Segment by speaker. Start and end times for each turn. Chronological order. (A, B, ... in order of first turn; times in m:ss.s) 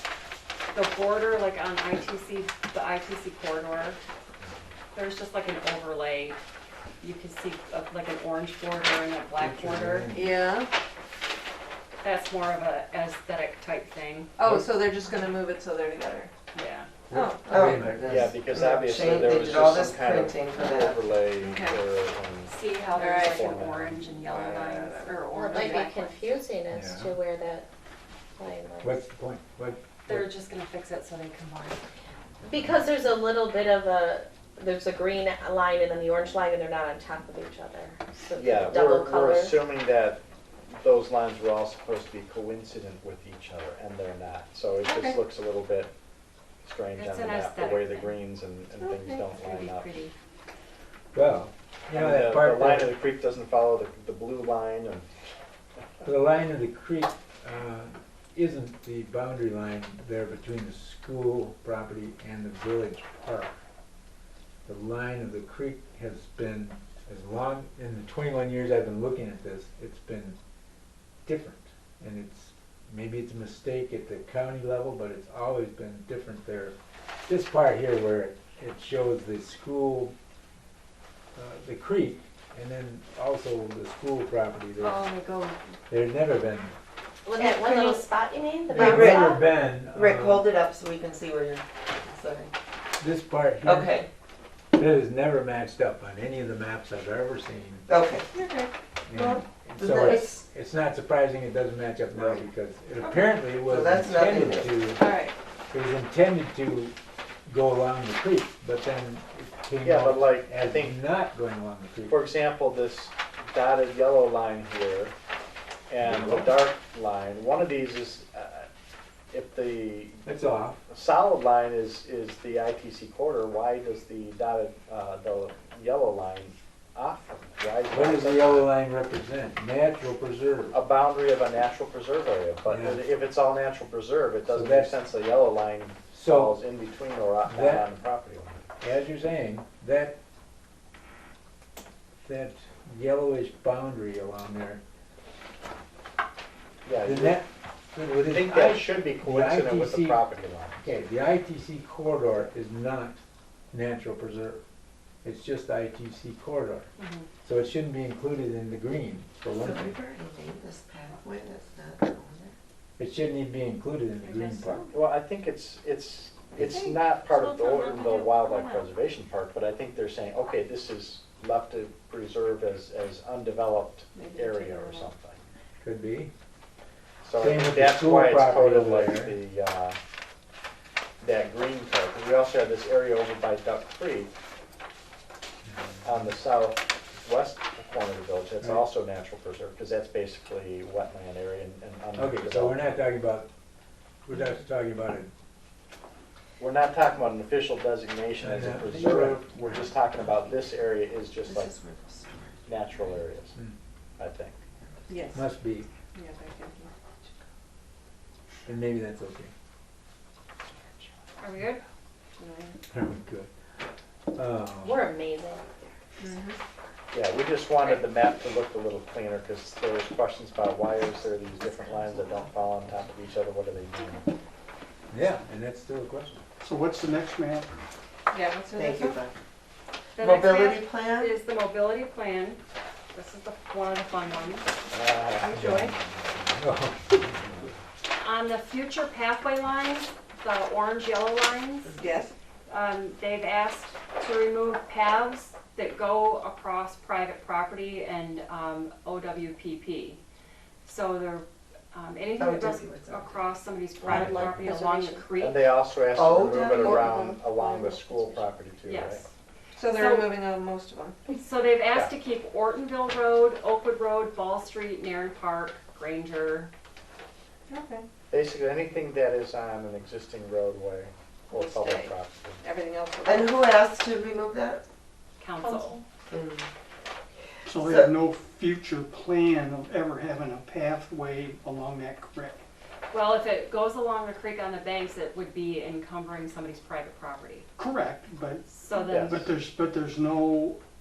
0:00.7-0:04.0 A
0:04.9-0:06.4 A
0:07.0-0:10.1 A
0:09.4-0:10.4 B
0:10.1-0:10.7 C
0:12.0-0:14.3 A
0:14.4-0:16.3 C
0:16.5-0:16.9 A
0:17.1-0:18.4 B
0:17.1-0:17.7 C
0:17.5-0:21.3 D
0:17.6-0:22.5 E
0:21.4-0:21.8 C
0:22.5-0:26.2 A
0:23.0-0:23.4 C
0:23.2-0:24.0 E
0:24.2-0:26.0 C
0:25.3-0:27.7 F
0:26.7-0:27.2 B
0:28.4-0:29.0 F
0:28.8-0:30.3 B
0:30.0-0:31.8 A
0:32.4-0:39.6 F
0:38.3-0:45.9 E
0:44.8-0:45.2 C
0:46.6-0:49.9 E
0:47.0-0:48.2 A
0:48.8-0:49.3 C
0:49.4-0:50.1 A
0:51.1-0:53.0 B
0:51.9-0:55.1 E
0:56.0-1:03.6 B
1:04.7-1:10.4 B
1:11.2-1:20.1 B
1:21.3-1:25.0 B
1:24.8-1:25.6 A
1:25.9-1:26.7 B
1:27.2-1:29.4 F
1:28.7-1:30.5 B
1:28.7-1:32.5 D
1:33.0-1:34.0 B
1:33.6-1:34.1 D
1:34.7-1:37.9 B
1:37.9-1:38.3 D
1:38.3-1:38.7 C
1:39.1-1:45.0 B
1:39.1-1:40.4 D
1:42.1-1:42.4 D
1:43.0-1:44.8 D
1:45.0-1:45.3 C
1:45.7-1:46.9 B
1:47.5-1:52.2 B
1:49.8-1:51.0 E
1:52.1-1:55.1 E
1:55.9-1:58.7 E
1:56.0-1:56.5 B
1:59.3-2:00.2 E
2:00.2-2:00.8 B
2:00.9-2:08.7 E
2:07.9-2:10.8 B
2:10.7-2:18.7 E
2:12.7-2:13.0 B
2:14.5-2:15.0 B
2:16.1-2:16.6 B
2:17.5-2:17.9 B
2:18.8-2:20.2 B
2:22.2-2:24.8 B
2:26.8-2:27.4 E
2:27.0-2:30.2 B
2:28.3-2:30.9 E
2:30.8-2:33.2 B
2:33.7-2:34.6 B
2:35.2-2:36.9 B
2:37.0-2:37.3 A
2:37.4-2:39.9 B
2:39.5-2:42.6 D
2:43.0-2:44.9 B
2:44.2-2:44.9 A
2:44.9-2:55.4 E
2:46.6-2:47.0 C
2:47.4-2:48.8 F
2:54.2-2:55.1 C
2:55.8-2:56.3 B
2:57.2-3:00.0 E
2:57.4-2:59.4 B
3:01.2-3:04.3 E
3:05.6-3:06.3 B
3:06.0-3:13.0 E
3:08.6-3:08.9 B
3:12.2-3:13.5 B
3:14.2-3:15.3 B
3:16.6-3:21.7 E
3:18.4-3:19.9 B
3:21.4-3:23.1 D
3:22.6-3:23.6 E
3:24.2-3:24.6 E
3:25.1-3:25.4 C
3:25.3-3:25.9 B
3:26.1-3:26.9 C
3:28.7-3:29.5 B
3:31.4-3:31.8 A
3:32.4-3:32.8 C
3:32.9-3:33.5 B
3:34.3-3:35.1 B
3:34.8-3:36.0 F
3:36.2-3:36.6 C
3:37.1-3:44.3 E
3:41.7-3:42.5 D
3:45.1-3:46.4 B
3:46.6-3:47.7 G
3:48.3-3:49.2 C
3:48.8-3:49.3 D
3:50.2-3:52.6 A
3:50.2-3:51.4 D
3:53.1-3:54.7 A
3:54.9-3:55.6 E
3:55.4-3:55.9 C
3:55.5-3:57.5 B
3:58.2-4:02.0 A
4:02.0-4:02.3 C
4:02.7-4:10.2 A
4:10.8-4:15.7 A
4:12.4-4:13.4 D
4:14.1-4:14.7 B
4:14.1-4:15.2 F
4:15.4-4:19.2 E
4:16.1-4:17.4 D
4:16.8-4:18.3 C
4:18.8-4:19.3 A
4:19.8-4:21.2 C
4:19.8-4:20.3 A
4:21.3-4:26.7 A
4:27.7-4:28.0 C
4:28.3-4:32.6 E
4:31.5-4:33.6 C
4:33.2-4:34.8 D
4:35.4-4:36.0 A
4:35.6-4:36.0 F
4:36.2-4:36.7 D
4:37.7-4:42.6 G
4:37.7-4:38.1 D
4:43.1-4:47.7 A
4:47.8-4:50.8 G
4:48.7-4:49.4 A
4:49.0-4:49.5 E